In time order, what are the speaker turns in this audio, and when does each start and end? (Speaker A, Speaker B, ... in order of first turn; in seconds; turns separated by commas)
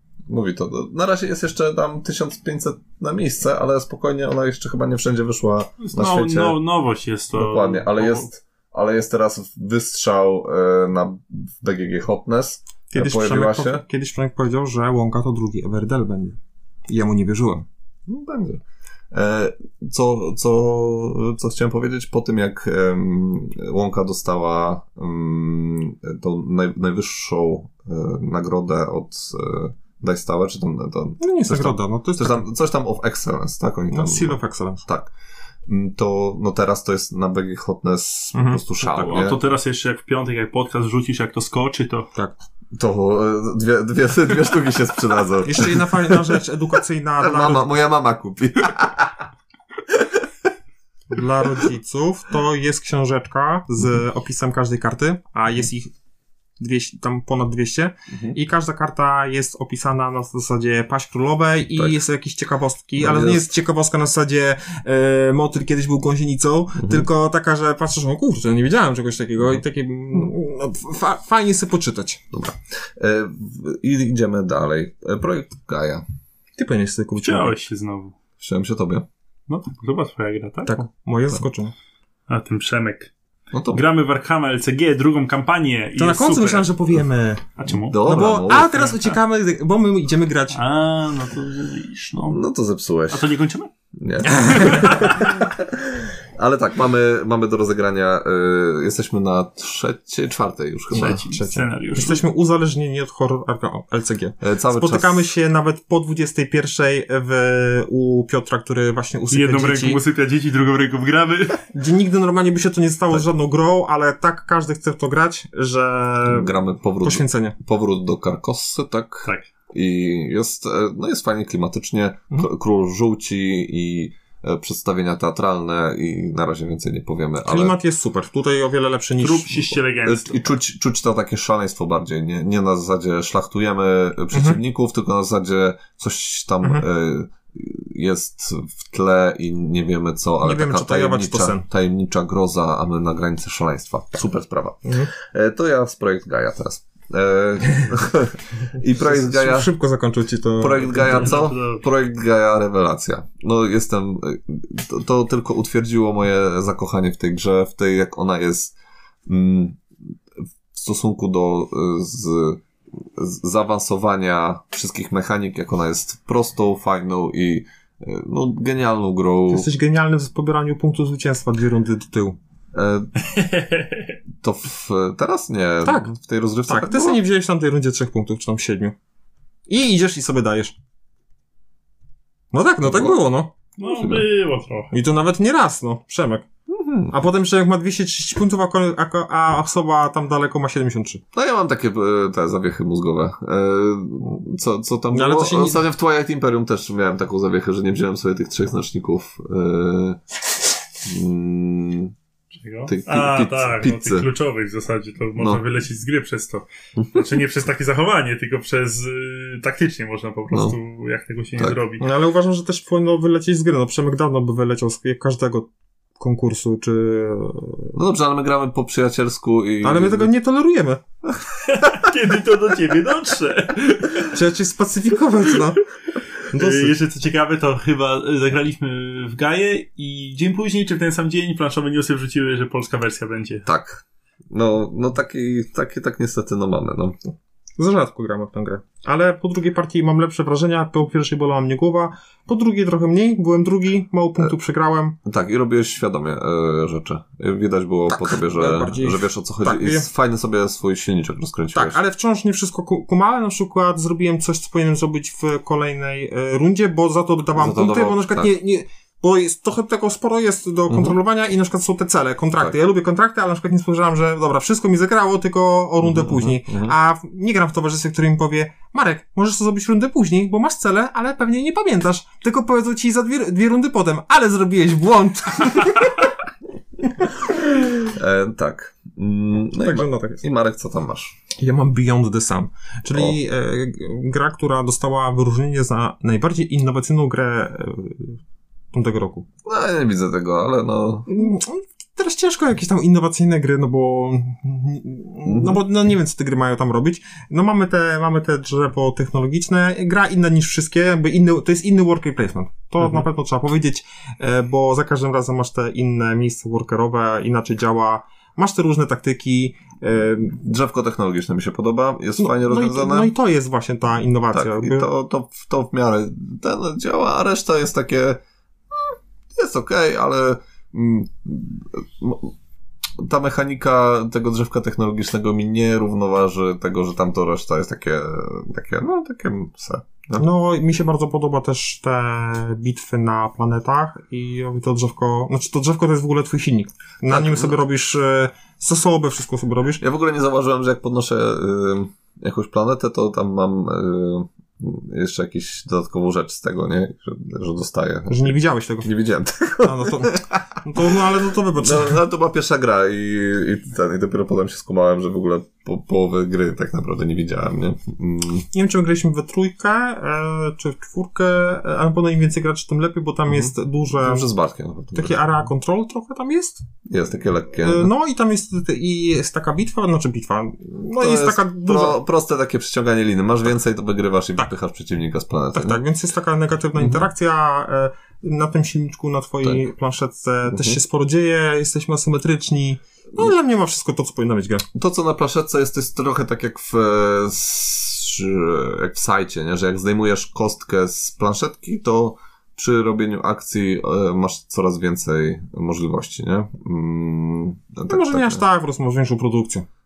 Speaker A: 0.3-6.6, Speaker B: 5.8-8.3, Speaker A: 7.3-13.8, Speaker C: 12.9-17.6, Speaker A: 18.1-35.1, Speaker C: 31.2-32.5, Speaker C: 33.9-34.8, Speaker A: 35.6-39.4, Speaker C: 38.3-38.6, Speaker B: 38.8-42.1, Speaker A: 42.7-46.4, Speaker C: 45.4-47.7, Speaker A: 47.2-49.3, Speaker A: 49.9-50.2, Speaker C: 51.1-55.9, Speaker C: 56.6-72.2, Speaker A: 58.1-58.4, Speaker A: 63.0-63.4, Speaker A: 66.8-67.1, Speaker A: 72.3-76.0, Speaker C: 76.6-77.5, Speaker B: 77.2-78.1, Speaker A: 78.4-79.1, Speaker B: 79.5-80.7, Speaker C: 80.7-81.7, Speaker B: 82.3-83.1, Speaker A: 83.5-83.8, Speaker B: 83.7-86.7, Speaker C: 86.0-87.4, Speaker B: 87.6-88.1, Speaker A: 87.7-88.9, Speaker C: 88.0-90.6, Speaker B: 88.7-89.2, Speaker B: 90.5-92.4, Speaker A: 92.3-93.3, Speaker B: 93.1-93.7, Speaker A: 93.9-101.2, Speaker C: 94.2-95.2, Speaker B: 94.7-95.1, Speaker B: 100.9-102.2, Speaker C: 101.2-110.0, Speaker A: 104.4-105.3, Speaker B: 109.3-111.6, Speaker C: 111.7-117.5, Speaker A: 116.3-127.8, Speaker C: 127.4-129.8, Speaker B: 129.2-130.5, Speaker A: 130.0-149.7, Speaker C: 134.3-134.6, Speaker C: 140.4-141.6, Speaker C: 144.8-145.1, Speaker C: 148.9-151.3, Speaker A: 150.6-158.7, Speaker B: 150.9-151.8, Speaker A: 159.2-159.8, Speaker A: 160.7-169.7, Speaker C: 169.5-172.4, Speaker A: 172.7-173.1, Speaker B: 173.2-174.2, Speaker A: 174.4-177.2, Speaker C: 175.8-176.2, Speaker C: 176.7-178.9, Speaker C: 179.7-180.7, Speaker C: 182.5-183.5, Speaker A: 182.8-183.2, Speaker B: 183.8-184.9, Speaker A: 183.8-184.3, Speaker C: 184.9-186.4, Speaker A: 186.7-187.1, Speaker C: 187.1-191.2, Speaker A: 191.3-200.2, Speaker C: 195.1-195.8, Speaker A: 201.0-202.1, Speaker B: 202.5-212.0, Speaker A: 202.9-204.3, Speaker A: 207.0-207.2, Speaker A: 210.5-210.8, Speaker C: 212.0-217.9, Speaker A: 217.9-220.3, Speaker C: 219.8-221.0, Speaker B: 221.6-224.3, Speaker C: 224.3-225.8, Speaker C: 226.5-226.9, Speaker B: 226.5-233.6, Speaker A: 233.7-237.2, Speaker C: 237.8-245.2, Speaker A: 245.2-252.0, Speaker C: 248.1-250.1, Speaker C: 251.7-276.3, Speaker A: 257.5-258.5, Speaker A: 260.9-261.2, Speaker A: 266.0-266.9, Speaker A: 277.8-281.4, Speaker C: 279.8-280.4, Speaker C: 281.6-288.4, Speaker C: 288.9-289.5, Speaker A: 289.6-291.3, Speaker C: 291.3-310.6, Speaker A: 295.4-295.8, Speaker A: 310.6-313.3, Speaker C: 312.4-315.1, Speaker A: 314.5-318.4, Speaker A: 318.9-322.5, Speaker A: 323.2-330.4, Speaker C: 330.4-340.0, Speaker A: 337.3-337.7, Speaker A: 340.0-351.1, Speaker C: 348.3-349.1, Speaker C: 349.8-352.2, Speaker A: 351.8-358.7, Speaker C: 358.7-364.5, Speaker A: 363.5-365.4, Speaker C: 365.1-366.8, Speaker A: 367.1-368.1, Speaker C: 367.8-372.2, Speaker A: 371.2-376.0, Speaker C: 375.7-384.9, Speaker A: 377.0-377.3, Speaker A: 380.7-381.0, Speaker A: 384.9-398.6, Speaker C: 398.1-399.9